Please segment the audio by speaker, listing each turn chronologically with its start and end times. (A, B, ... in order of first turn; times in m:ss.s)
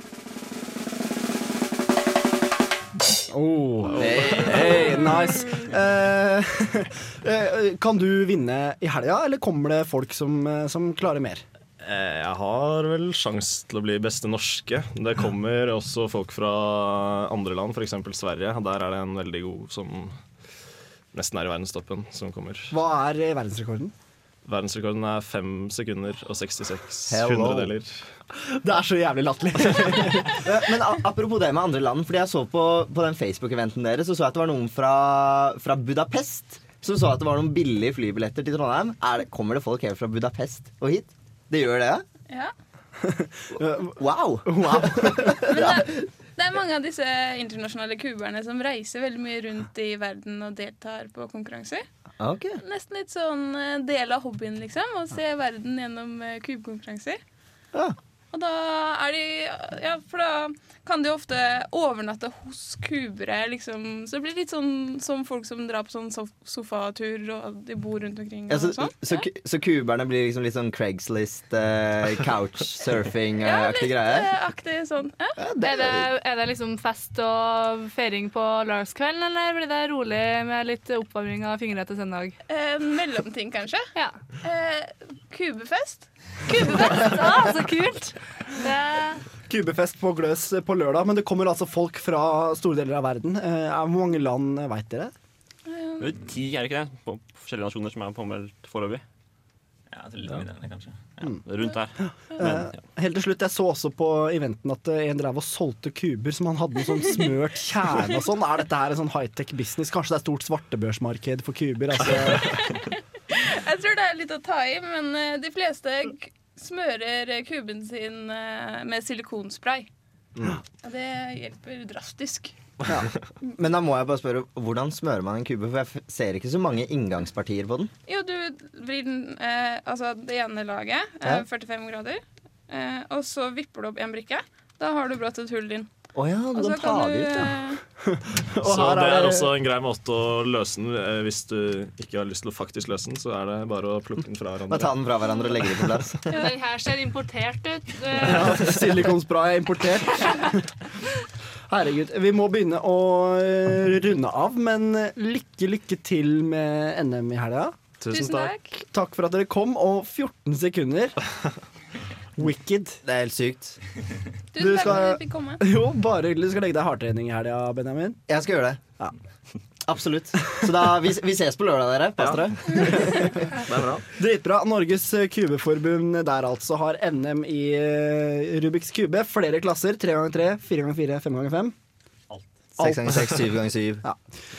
0:03.3-0:11.4 A
0:03.9-0:04.8 B
0:04.0-0:04.6 C
0:11.8-0:20.2 B
0:21.1-0:22.7 B
0:22.7-0:23.9 A
0:24.4-0:28.0 B
0:27.1-0:27.7 C
0:28.3-0:30.3 A
0:30.3-0:42.0 C
0:43.0-0:45.4 A
0:44.0-0:45.9 C
0:45.5-0:51.8 D
0:52.2-0:52.6 C
0:52.6-0:57.2 D
0:58.3-1:09.3 D
1:08.5-1:14.3 C
1:13.4-1:15.4 D
1:15.4-1:16.1 C
1:15.6-1:22.4 E
1:22.5-1:23.9 D
1:24.4-1:27.5 D
1:26.5-1:29.2 E
1:29.5-1:35.1 A
1:35.7-1:36.0 D
1:36.0-1:39.0 F
1:40.0-1:40.8 F
1:41.4-1:42.0 F
1:42.4-1:52.6 A
1:53.3-1:59.9 D
2:00.8-2:02.5 D
2:03.5-2:07.9 C
2:08.1-2:15.9 D
2:16.2-2:17.6 C
2:16.6-2:17.8 D
2:18.0-2:19.5 A
2:18.6-2:24.9 B
2:24.7-2:26.4 C
2:26.3-2:28.6 E
2:28.2-2:30.6 A
2:31.7-2:37.8 A
2:38.0-2:38.5 B
2:38.1-2:38.8 D
2:38.9-2:41.2 A
2:42.4-2:43.0 A
2:43.0-2:43.8 C
2:44.5-2:45.6 D
2:44.6-2:48.2 A
2:48.3-2:48.8 C
2:49.8-2:54.0 C
2:52.2-2:53.3 A
2:54.2-3:01.7 A
3:02.8-3:03.5 A
3:02.8-3:04.0 C